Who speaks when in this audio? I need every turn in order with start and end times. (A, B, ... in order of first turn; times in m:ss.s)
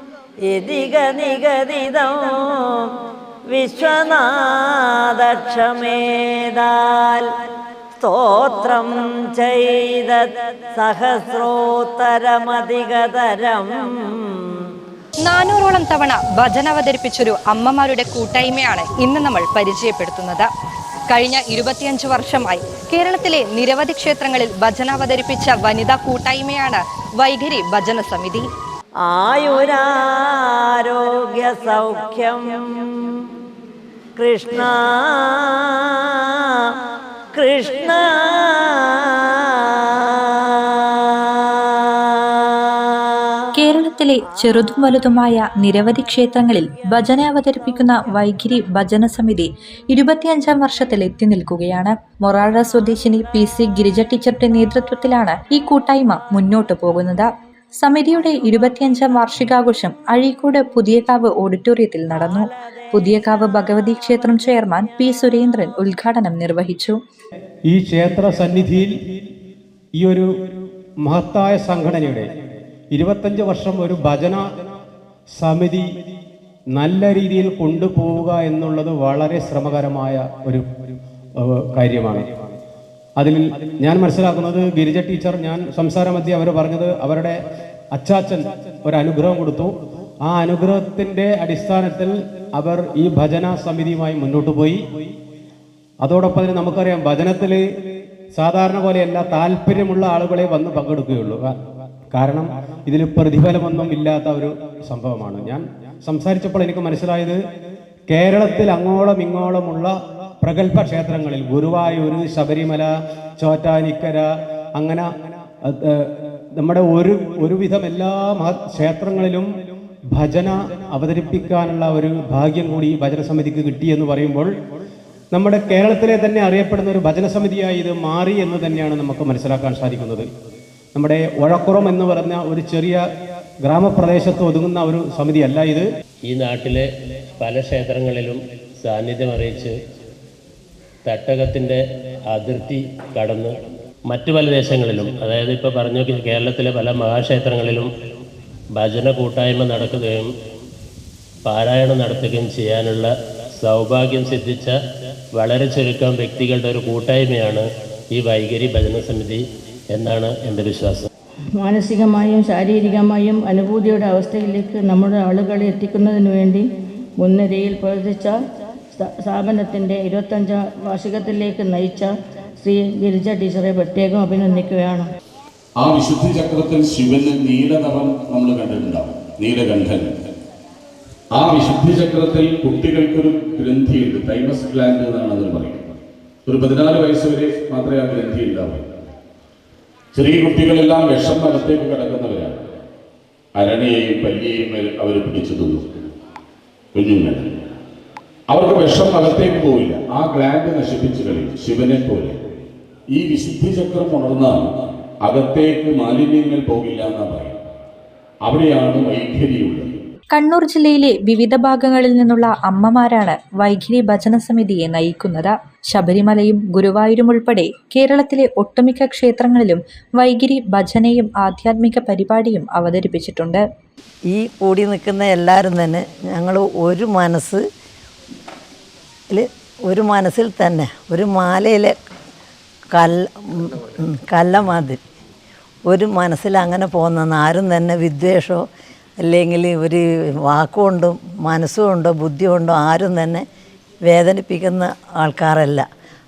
0:00.5-0:02.3 A
0:03.5-0:07.2 A
0:08.0-0:13.9 A
0:15.2-0:20.5 B
0:21.1-0:28.4 B
0:29.0-0:33.2 A
0:34.2-0:36.0 A
0:37.3-0:39.9 A
0:43.5-1:07.0 C
1:07.7-1:09.0 D
1:10.0-1:10.3 D
1:11.0-1:12.3 D
1:12.9-1:14.5 D
1:15.4-1:15.9 D
1:16.7-1:22.5 D
1:23.2-1:27.4 D
1:27.9-1:34.8 D
1:36.0-1:37.6 D
1:38.3-1:41.6 D
1:42.1-1:47.4 D
1:48.1-1:55.1 D
1:55.6-1:59.5 D
2:00.1-2:04.5 D
2:05.3-2:10.3 D
2:10.9-2:13.0 D
2:13.6-2:15.8 D
2:16.2-2:16.8 E
2:17.4-2:19.7 E
2:21.0-2:27.9 E
2:28.7-2:30.3 E
2:31.4-2:34.8 E
2:35.3-2:41.1 E
2:41.6-2:46.6 F
2:47.2-2:48.3 F
2:48.9-2:55.1 F
2:55.8-3:00.1 G
3:01.3-3:05.9 G
3:06.5-3:08.9 G
3:10.1-3:12.6 G
3:13.6-3:16.1 G
3:16.9-3:17.4 G
3:18.5-3:22.4 G
3:23.1-3:27.6 G
3:28.4-3:30.0 G
3:30.3-3:43.6 C
3:44.3-3:47.6 A
3:49.3-3:51.9 A
3:53.0-3:55.0 A
3:55.9-3:58.6 A
3:59.2-4:03.4 A
4:04.1-4:05.8 A